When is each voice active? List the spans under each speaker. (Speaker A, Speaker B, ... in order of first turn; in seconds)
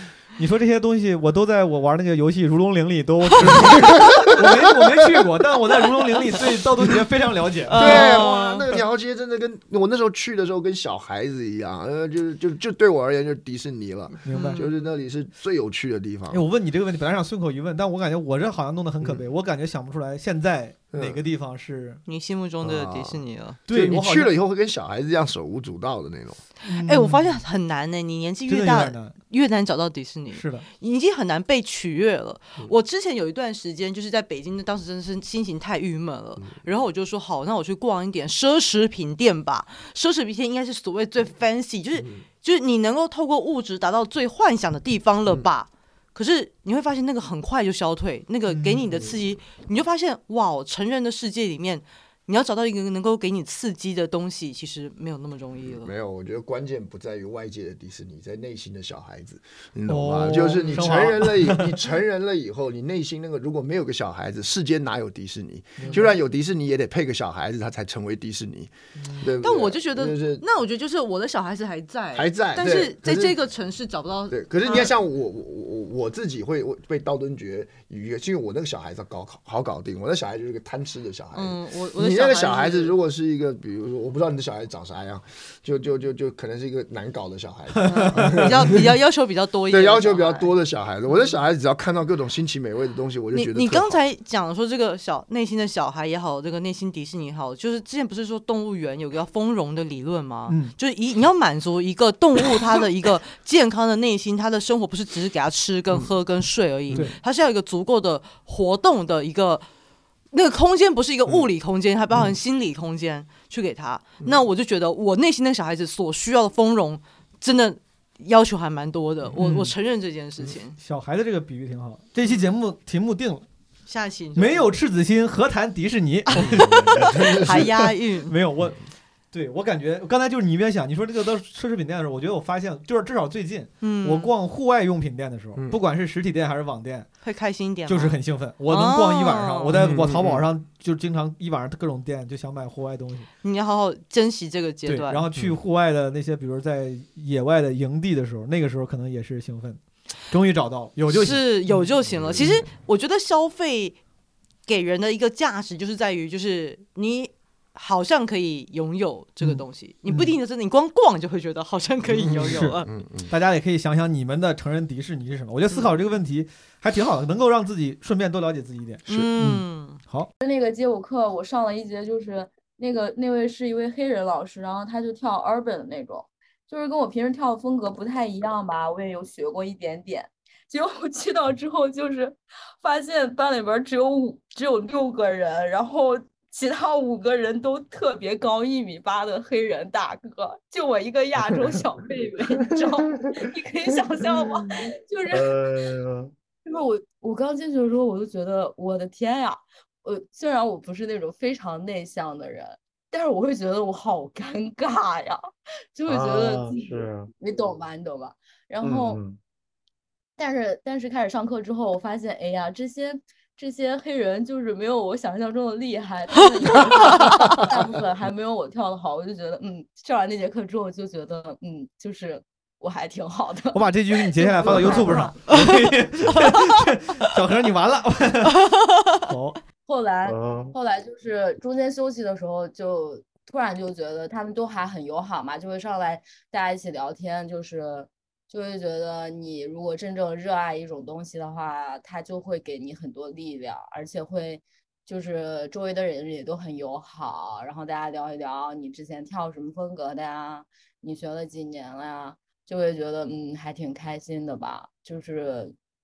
Speaker A: 0.4-8.2, 14.2-14.6, 16.3-22.0, 23.7-24.4, 26.6-27.4, 28.5-29.2, 30.3-30.6, 48.5-49.0, 59.9-61.8, 65.8-66.1, 87.8-88.5, 100.5-100.7, 119.4-119.7, 120.8-123.4, 124.3-128.8, 129.3-137.1, 137.8-143.3, 144.8-151.7, 159.4-160.3, 162.3-162.7, 163.3-170.3, 223.7-228.6, 229.3-229.6
Speaker B: 3.4-4.5, 7.7-16.4, 20.9-21.2, 22.6-26.4, 42.0-42.2, 55.7-70.4, 72.1-73.3, 74.3-88.8, 89.7-94.0, 106.9-107.1, 126.4-127.7, 139.7-140.4, 152.1-152.5, 162.1-163.3
Speaker C: 7.7-8.7, 14.3-14.6, 22.1-23.6, 26.7-55.9, 60.7-60.9, 69.4-74.9, 81.3-82.9, 87.8-90.5, 93.3-109.7, 110.3-120.8, 122.2-122.5, 123.9-124.7, 126.3-128.3, 133.8-134.3, 137.2-140.0, 143.4-145.2, 151.1-154.0, 154.7-162.9, 169.1-170.0, 228.7-229.0
Speaker D: 170.4-195.6, 196.7-209.2, 210.4-225.4, 229.8-255.7
Speaker E: 191.4-191.9, 192.6-194.8, 195.3-196.3, 206.1-207.3, 208.8-209.4, 224.6-225.0, 230.2-230.8